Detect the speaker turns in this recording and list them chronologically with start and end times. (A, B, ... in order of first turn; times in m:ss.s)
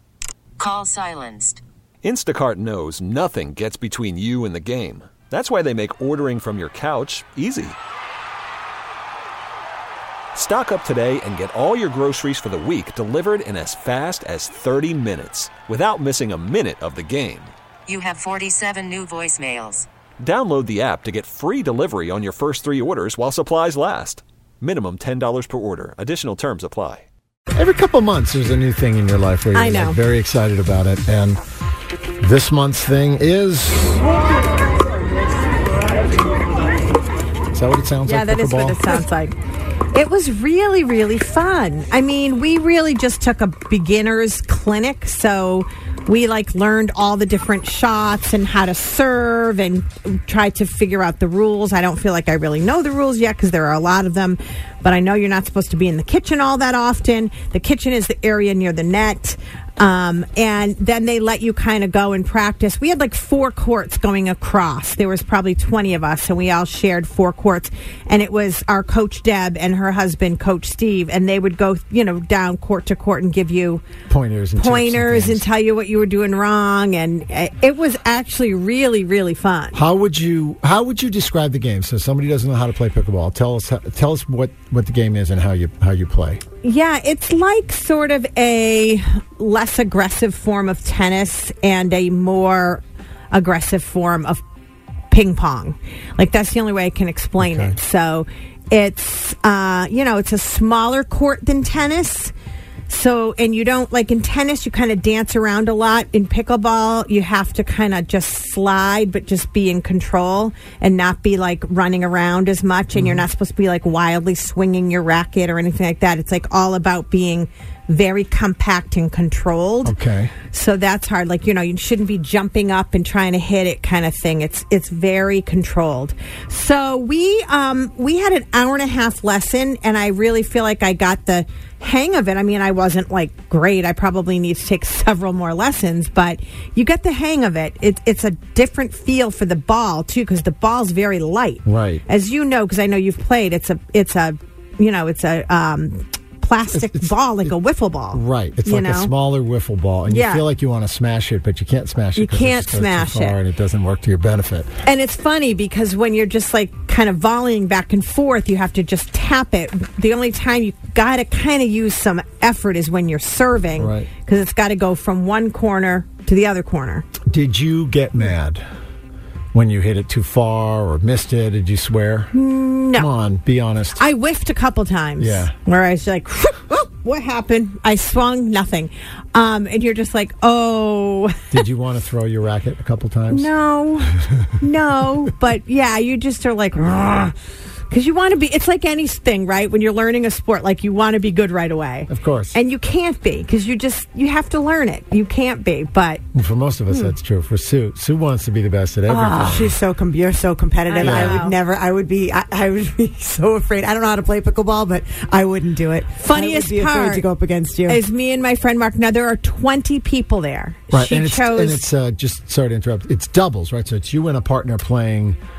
0:00.6-0:01.6 A
0:02.0-0:07.8 B
0:10.4-0:17.5 B
0:17.9-0:19.9 A
0:20.2-0:27.1 B
0:27.6-0:31.4 C
0:29.5-0:30.0 D
0:32.2-0:34.1 C
0:37.5-0:39.0 C
0:38.0-0:39.4 D
0:39.9-1:13.8 D
1:14.1-1:15.5 C
1:14.6-1:19.8 D
1:19.7-1:26.4 C
1:26.6-1:34.4 D
1:35.1-1:42.3 D
1:37.4-1:37.8 C
1:42.9-2:00.0 D
1:52.9-1:53.2 C
1:59.8-2:00.3 C
2:00.5-2:29.1 D
2:21.7-2:22.0 C
2:26.7-2:27.6 C
2:28.1-2:34.7 C
2:30.1-2:30.5 D
2:32.2-2:33.4 D
2:34.8-2:47.0 D
2:43.8-2:44.1 C
2:47.3-2:48.6 C
2:49.5-2:52.3 C
2:52.3-2:53.1 D
2:53.0-2:54.0 C
2:54.0-3:01.7 D
2:55.2-2:55.5 C
3:01.5-3:03.5 C
3:03.3-3:07.3 D
3:07.9-3:16.2 D
3:12.1-3:12.6 C
3:16.3-3:19.7 C
3:19.1-3:28.0 E
3:19.1-3:19.7 D
3:20.9-3:21.6 D
3:21.0-3:21.4 C
3:26.2-3:27.2 D
3:27.9-3:31.8 D
3:30.9-3:35.4 C